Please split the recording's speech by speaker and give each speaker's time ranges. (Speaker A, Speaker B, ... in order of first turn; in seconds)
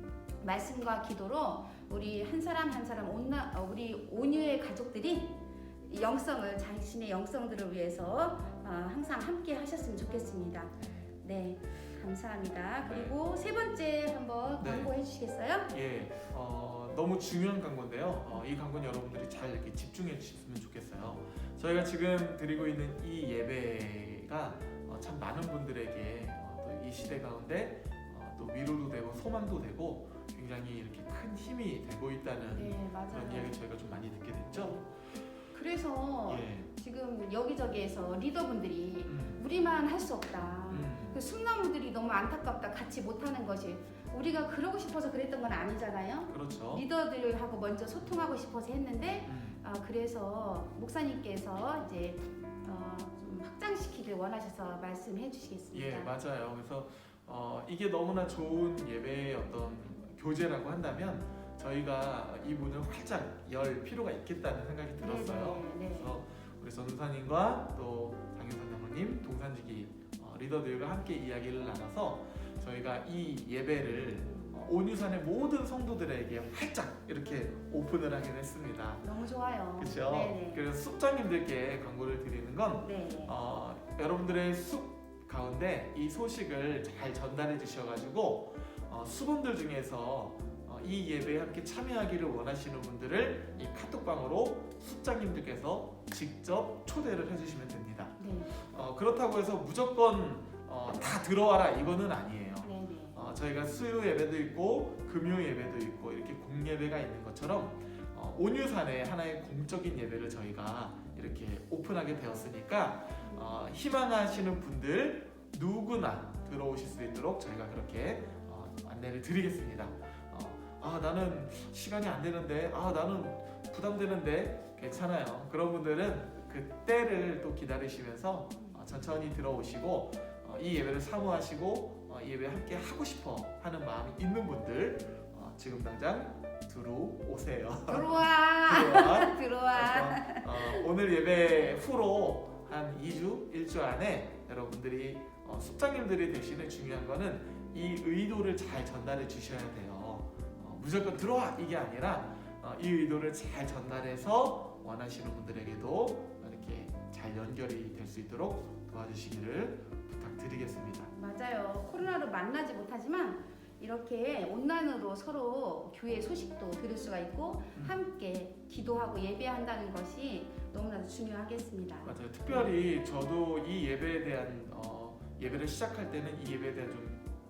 Speaker A: 0.4-15.7, 32.5-33.5, 34.5-34.8, 35.5-56.1, 65.0-66.2, 74.2-74.5, 79.0-80.6, 82.8-83.3, 98.2-98.5, 102.6-103.2, 113.2-113.5, 128.6-128.8, 137.9-140.8, 161.1-172.7
Speaker B: 10.8-11.1, 12.8-13.2, 14.6-14.9, 15.7-34.9, 36.3-36.7, 39.0-39.4, 40.7-41.2, 46.3-46.8, 49.3-49.6, 55.7-79.0, 79.8-161.1, 172.0-177.2